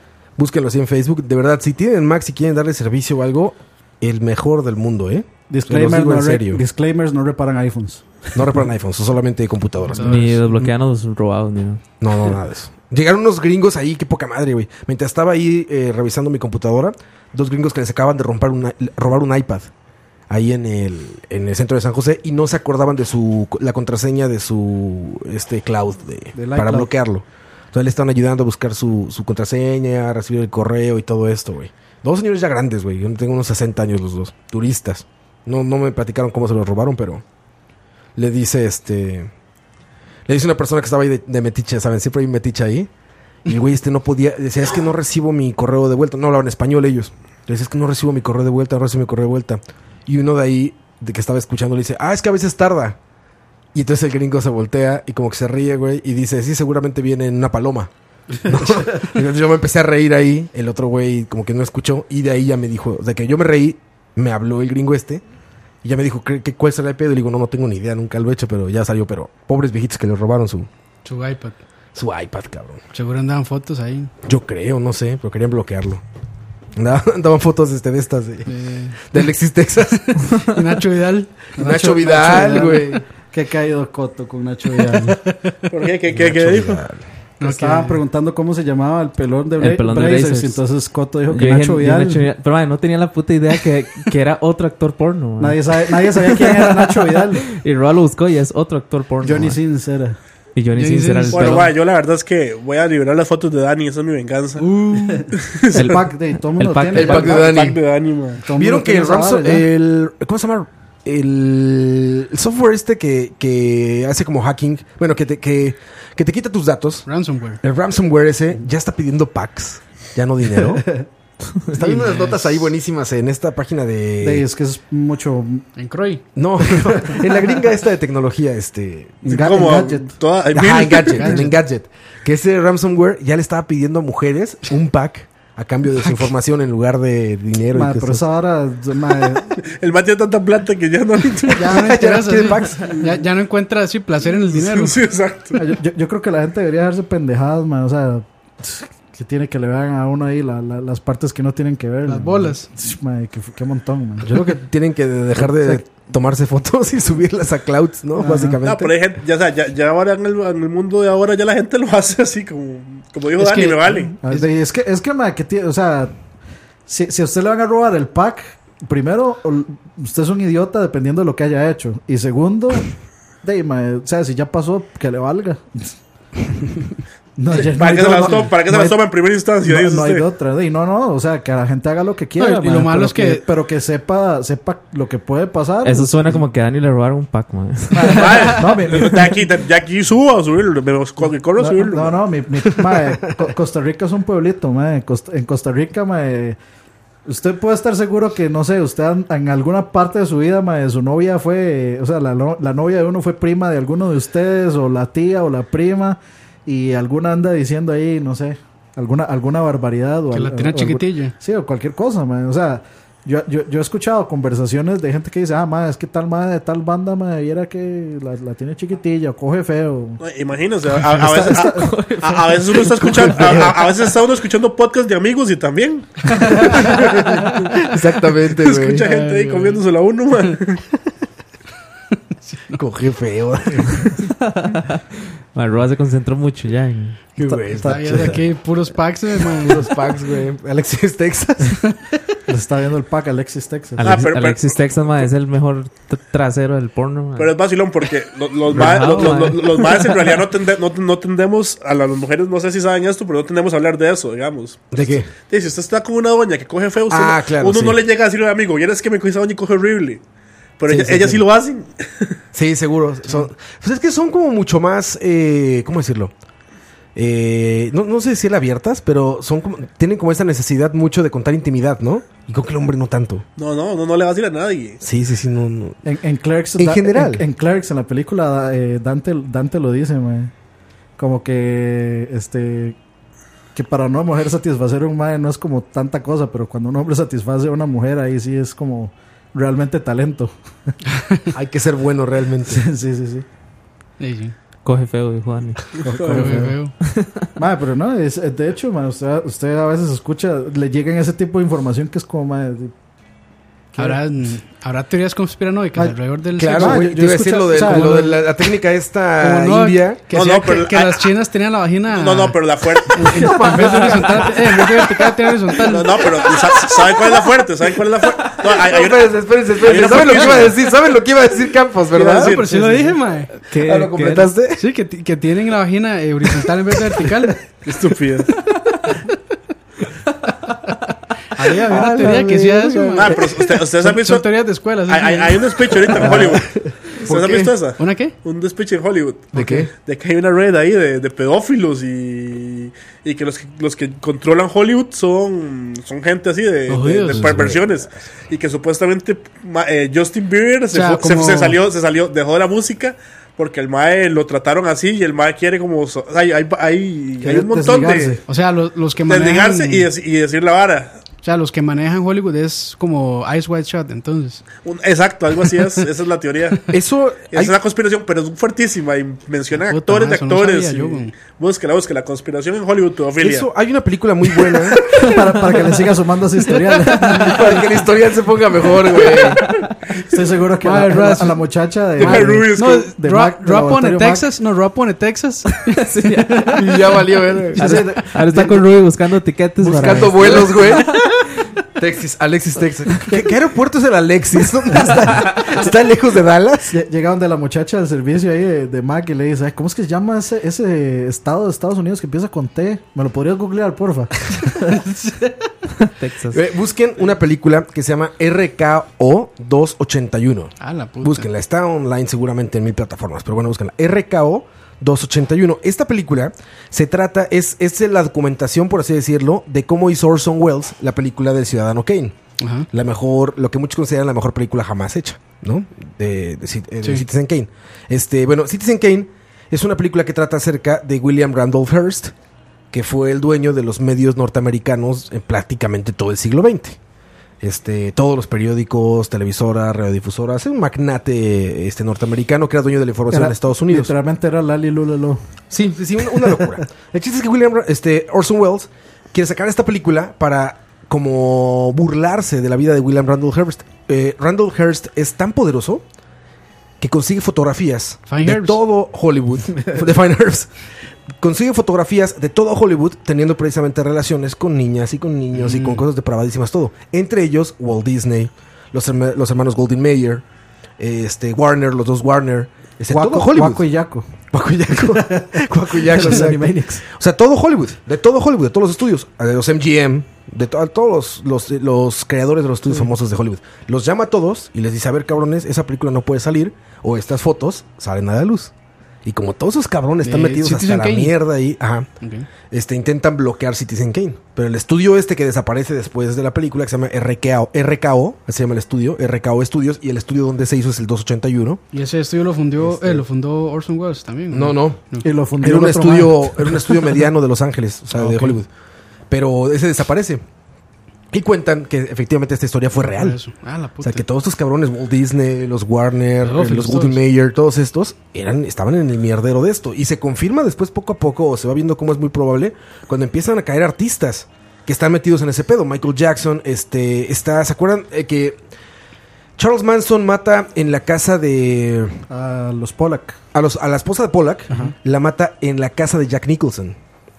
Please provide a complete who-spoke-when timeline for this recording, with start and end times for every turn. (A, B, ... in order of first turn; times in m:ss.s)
0:00.4-0:06.6 A
0:05.5-0:08.2 B
0:08.3-0:10.4 A
0:09.9-0:10.4 C
0:10.0-0:11.8 D
0:12.0-0:19.7 A
0:20.3-0:37.2 A
0:26.3-0:26.9 B
0:38.2-0:39.3 A
0:40.3-0:42.9 A
0:43.4-0:53.0 A
0:53.7-0:57.9 A
0:58.4-1:05.2 A
1:05.8-1:10.7 A
1:11.0-1:11.6 C
1:12.0-1:12.8 A
1:12.9-1:14.1 C
1:14.2-1:16.0 A
1:16.8-1:20.3 A
1:18.5-1:19.2 C
1:20.1-1:22.7 C
1:21.6-1:23.0 A
1:21.6-1:25.2 B
1:25.7-1:26.8 E
1:26.1-1:27.0 A
1:27.4-1:28.0 C
1:27.4-1:32.3 B
1:29.6-1:30.6 D
1:31.3-1:39.6 D
1:35.4-1:37.5 B
1:39.2-1:40.2 B
1:40.6-1:41.7 D
1:40.8-1:41.7 C
1:41.3-1:44.7 E
1:44.6-1:45.3 C
1:45.0-1:47.5 B
1:45.4-1:45.9 E
1:45.7-1:47.4 D
1:46.9-1:47.8 A
1:47.0-1:48.4 E
1:48.4-1:49.6 B
1:48.6-1:57.1 A
1:57.1-1:57.6 C
1:57.6-2:00.9 A
2:01.7-2:04.5 A
2:01.8-2:02.7 C
2:04.2-2:05.7 B
2:05.8-2:06.2 C
2:06.4-2:09.2 A
2:09.2-2:10.2 B
2:09.2-2:11.4 E
2:10.5-2:18.2 A
2:11.2-2:11.5 C
2:17.7-2:19.6 B
2:19.6-2:21.7 E
2:21.6-2:23.0 A
2:21.6-2:25.0 C
2:24.5-2:25.6 E
2:25.6-2:34.4 B
2:32.1-2:32.7 C
2:34.2-2:39.0 A
2:35.4-2:35.8 B
2:38.2-2:38.6 B
2:38.6-2:44.1 E
2:43.4-2:44.5 C
2:44.0-2:46.2 B
2:46.9-2:55.9 B
2:57.4-2:59.0 B
2:57.5-3:00.3 E
2:59.6-3:06.5 B
3:02.4-3:03.4 C
3:05.8-3:08.8 D
3:07.9-3:09.4 B
3:08.0-3:12.2 E
3:11.6-3:16.6 B
3:12.8-3:13.2 A
3:17.3-3:40.2 B
3:30.3-3:31.4 C
3:40.2-3:46.6 E
3:41.0-3:42.0 B
3:41.7-3:43.2 D
3:42.8-3:43.6 B
3:43.4-3:43.7 A
3:46.8-3:49.0 A
3:48.6-3:50.8 E
3:48.9-3:49.8 C
3:52.5-3:52.8 C
3:52.7-3:54.2 A
3:54.4-3:55.0 D
3:55.5-3:57.6 D
3:57.4-3:58.4 A
3:57.8-3:58.4 B
3:57.8-3:59.9 C
3:59.6-4:01.8 A
4:02.5-4:04.1 B
4:04.0-4:07.5 D
4:04.0-4:05.3 E
4:07.4-4:20.2 E
4:08.7-4:10.4 D
4:14.9-4:15.3 A
4:17.1-4:18.0 A
4:20.8-4:22.4 E
4:20.9-4:21.4 A
4:22.5-4:26.3 A
4:27.2-4:33.4 A
4:33.6-4:35.0 E
4:35.0-4:36.0 A
4:36.0-4:40.5 B
4:36.8-4:37.4 A
4:41.2-4:43.0 B
4:43.8-4:50.9 B
4:51.5-4:52.8 A
4:52.7-4:53.5 B
4:54.2-4:54.6 C
4:54.8-4:56.0 D
4:56.0-4:56.9 B
4:56.1-4:56.5 E
4:56.3-4:56.9 C
4:57.0-4:57.5 D
4:57.6-5:02.9 B
5:03.9-5:04.2 B
5:04.0-5:07.1 C
5:06.0-5:08.4 B
5:06.6-5:10.2 A
5:09.4-5:12.6 C
5:10.3-5:11.3 E
5:12.1-5:13.5 E
5:13.1-5:16.2 C
5:13.2-5:15.4 A
5:13.9-5:14.4 D
5:15.9-5:20.8 E
5:18.6-5:22.6 A
5:22.1-5:22.7 E
5:22.4-5:23.5 C
5:22.8-5:23.1 B
5:23.7-5:24.5 D
5:23.8-5:24.8 A
5:24.8-5:27.6 C
5:27.8-5:28.5 E
5:31.6-5:33.3 C
5:31.9-5:33.4 A
5:31.9-5:32.3 B
5:33.2-5:34.4 E
5:34.0-5:35.9 C
5:35.1-5:36.7 E
5:36.2-5:36.6 B
5:36.2-5:36.7 A
5:37.2-5:58.4 E
5:37.2-5:37.7 A
5:38.0-5:38.4 C
5:39.5-5:39.9 A
5:46.9-5:47.6 C
5:47.3-5:48.0 A
5:50.9-5:51.8 C
5:57.4-5:58.4 B
5:58.5-6:00.1 C
5:59.3-6:01.2 E
6:01.4-6:04.6 C
6:04.8-6:06.9 E
6:06.9-6:07.8 A
6:07.5-6:13.7 E
6:09.9-6:11.3 C
6:13.4-6:15.0 A
6:15.1-6:17.7 B
6:17.2-6:19.6 A
6:20.2-6:24.5 B
6:20.8-6:21.6 C
6:22.2-6:23.1 E
6:22.2-6:26.8 C
6:26.0-6:27.0 D
6:26.7-6:28.1 A
6:27.7-6:31.5 D
6:27.8-6:29.0 B
6:29.8-6:31.2 A
6:29.8-6:30.7 B
6:32.0-6:36.9 A
6:35.0-6:35.3 B
6:35.3-6:35.6 D
6:36.8-6:45.0 B
6:46.0-6:46.6 D
6:46.5-7:02.4 A
6:50.8-6:51.5 C
7:02.6-7:02.9 C
7:02.9-7:12.3 A
7:12.9-7:17.0 A
7:17.6-7:24.1 A
7:23.3-7:25.4 B
7:25.7-7:36.0 A
7:26.4-7:26.8 B
7:37.0-7:40.7 A
7:38.3-7:38.8 C
7:41.4-7:50.4 A
7:45.6-7:46.0 C
7:51.0-7:53.8 A
7:53.1-7:54.3 B
7:54.5-8:08.7 A
7:55.0-7:57.0 B
8:09.2-8:12.1 A
8:10.2-8:11.3 C
8:12.2-8:12.5 C
8:12.7-8:21.8 A
8:21.9-8:25.3 C
8:22.8-8:23.2 A
8:24.5-8:25.0 A
8:25.2-8:27.1 B
8:25.6-8:28.7 A
8:28.2-8:28.6 C
8:29.3-8:30.4 A
8:31.3-8:33.4 A
8:33.1-8:34.2 C
8:34.0-8:48.6 A
8:36.4-8:37.2 C
8:49.6-8:52.2 A
8:52.3-8:53.4 B
8:53.5-8:57.0 A